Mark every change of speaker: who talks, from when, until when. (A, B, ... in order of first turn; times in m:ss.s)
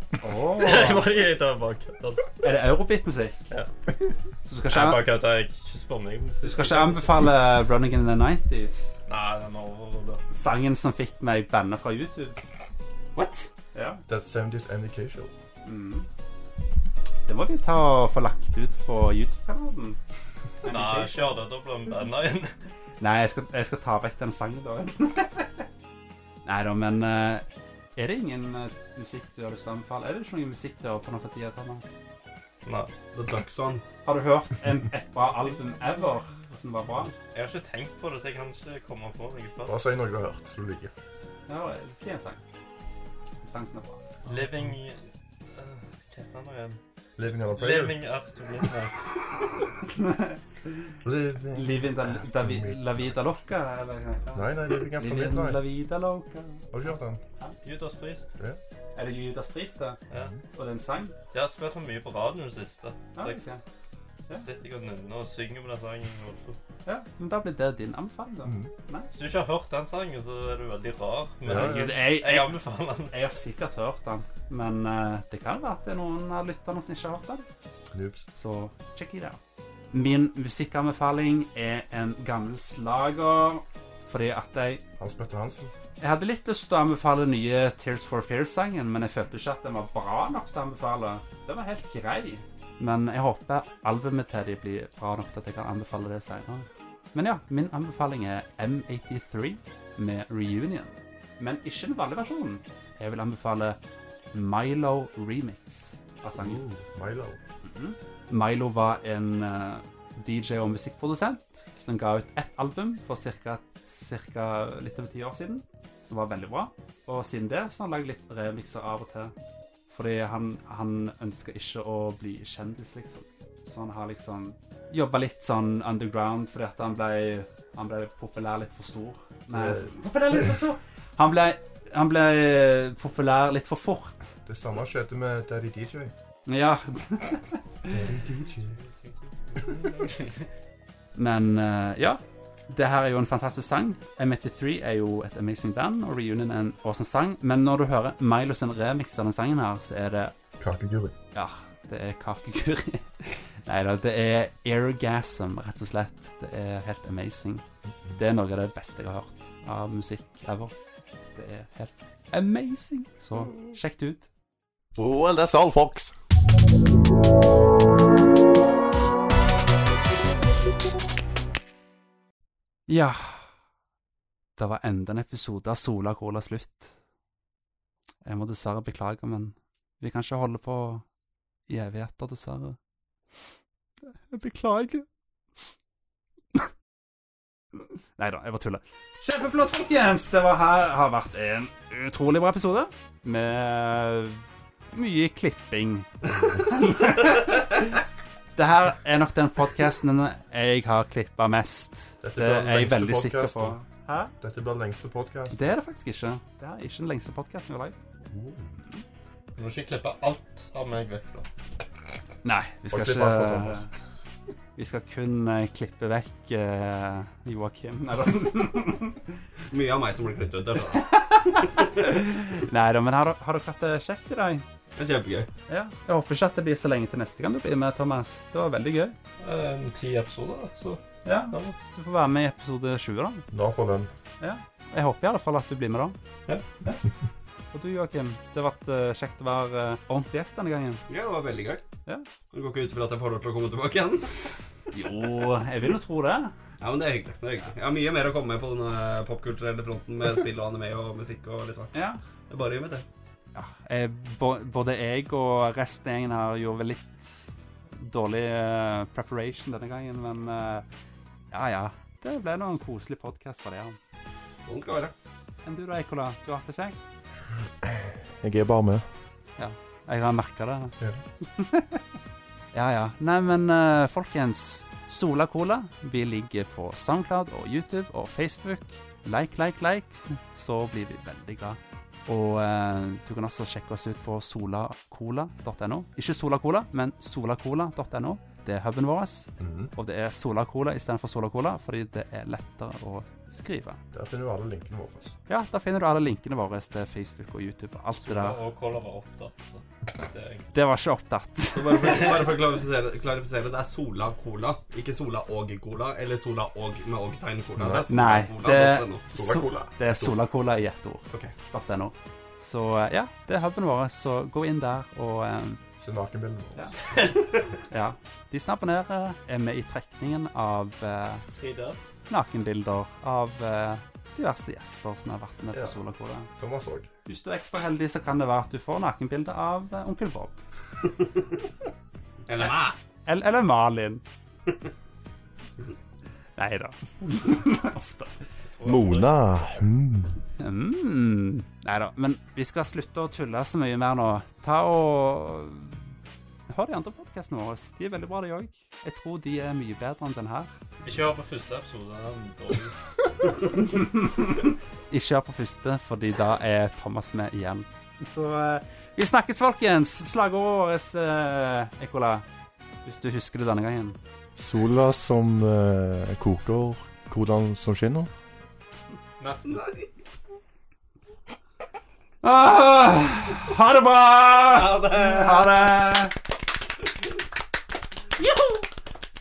0:00.2-0:01.1 A
0:00.5-0:02.3 B
0:02.4-0:03.4 A
0:04.5-0:05.1 A
0:04.7-0:07.3 B
0:06.4-0:09.0 A
0:09.1-0:10.2 B
0:10.3-0:12.4 A
0:13.1-0:13.5 C
0:13.7-0:14.0 A
0:14.1-0:15.3 D
0:15.6-0:16.1 A
0:17.3-0:20.0 A
0:20.6-0:21.3 A
0:20.6-0:22.5 B
0:23.0-0:25.6 A
0:26.4-0:27.4 A
0:28.0-0:32.0 A
0:32.6-0:32.9 B
0:33.1-0:33.8 C
0:34.0-0:37.1 A
0:37.3-0:39.8 B
0:39.6-0:40.9 D
0:41.5-0:42.4 A
0:43.4-0:44.0 A
0:44.2-0:46.8 B
0:44.3-0:44.7 D
0:47.2-0:48.0 D
0:47.5-0:49.1 B
0:49.8-0:50.7 A
0:51.0-0:53.2 D
0:51.5-0:57.6 A
0:54.3-0:55.7 D
0:56.7-0:57.2 D
0:57.6-0:58.3 B
0:59.0-1:00.0 A
1:00.1-1:00.4 D
1:00.5-1:01.1 A
1:01.3-1:03.4 B
1:03.2-1:03.6 A
1:04.2-1:06.6 B
1:06.8-1:09.2 A
1:08.4-1:08.7 D
1:09.1-1:13.1 B
1:11.4-1:12.0 D
1:11.5-1:17.4 A
1:17.9-1:18.3 D
1:18.3-1:19.4 A
1:19.9-1:24.8 A
1:25.0-1:25.7 D
1:26.0-1:43.8 A
1:44.3-1:46.6 A
1:46.4-1:47.4 D
1:47.6-1:59.3 A
1:59.9-2:14.4 A
2:09.5-2:10.5 D
2:14.4-2:16.1 D
2:16.5-2:18.0 A
2:17.9-2:18.7 D
2:18.6-2:20.5 B
2:21.2-2:30.3 A
2:30.6-2:31.1 D
2:31.3-2:37.6 A
2:37.9-2:38.2 D
2:38.2-2:40.7 A
2:41.3-2:44.2 A
2:45.0-2:46.1 D
2:52.9-2:53.4 A
2:54.6-2:56.9 A
2:58.2-3:01.0 A
3:01.7-3:02.8 A
3:04.3-3:05.0 A
3:08.2-3:18.0 A
3:18.6-3:24.3 A
3:22.2-3:23.8 D
3:24.4-3:25.8 D
3:25.5-3:28.0 A
3:28.3-3:28.8 D
3:29.6-3:31.5 B
3:32.4-3:33.9 A
3:32.9-3:33.9 D
3:34.8-3:39.2 A
3:39.7-3:41.1 C
3:40.9-3:44.6 A
3:45.0-3:45.5 C
3:45.7-3:49.1 A
3:49.4-3:51.8 B
3:51.2-3:53.4 A
3:53.5-3:54.1 D
3:54.4-3:56.2 A
3:57.7-4:01.0 A
4:01.1-4:01.8 C
4:02.5-4:04.4 C
4:04.9-4:06.5 A
4:06.8-4:11.9 C
4:11.9-4:12.2 A
4:12.5-4:13.0 C
4:13.5-4:20.8 A
4:21.5-4:24.0 A
4:24.6-4:25.1 C
4:25.6-4:27.0 A
4:27.8-4:29.0 D
4:29.6-4:32.0 A
4:32.7-4:54.0 A
4:49.6-4:49.9 D
4:54.1-4:55.4 D
4:55.5-4:58.6 A
4:58.2-5:00.7 B
5:00.7-5:02.3 A
5:01.7-5:09.2 C
5:02.0-5:02.4 B
5:07.8-5:08.1 D
5:08.1-5:15.8 A
5:09.3-5:09.9 D
5:16.0-5:17.0 D
5:17.0-5:17.7 B
5:17.9-5:21.4 A
5:21.5-5:22.1 B
5:22.3-5:26.5 A
5:26.5-5:27.1 D
5:27.3-5:30.6 A
5:32.5-5:32.9 C
5:32.6-5:34.2 A
5:36.6-5:38.3 A
5:38.7-5:39.3 B
5:38.8-5:40.4 D
5:40.6-5:46.1 A
5:46.7-5:50.7 A
5:51.0-5:53.0 B
5:53.8-6:02.4 A
6:03.0-6:04.2 A
6:04.6-6:08.3 D
6:09.4-6:09.9 B
6:12.4-6:16.3 A
6:14.7-6:15.8 C
6:18.4-6:18.8 A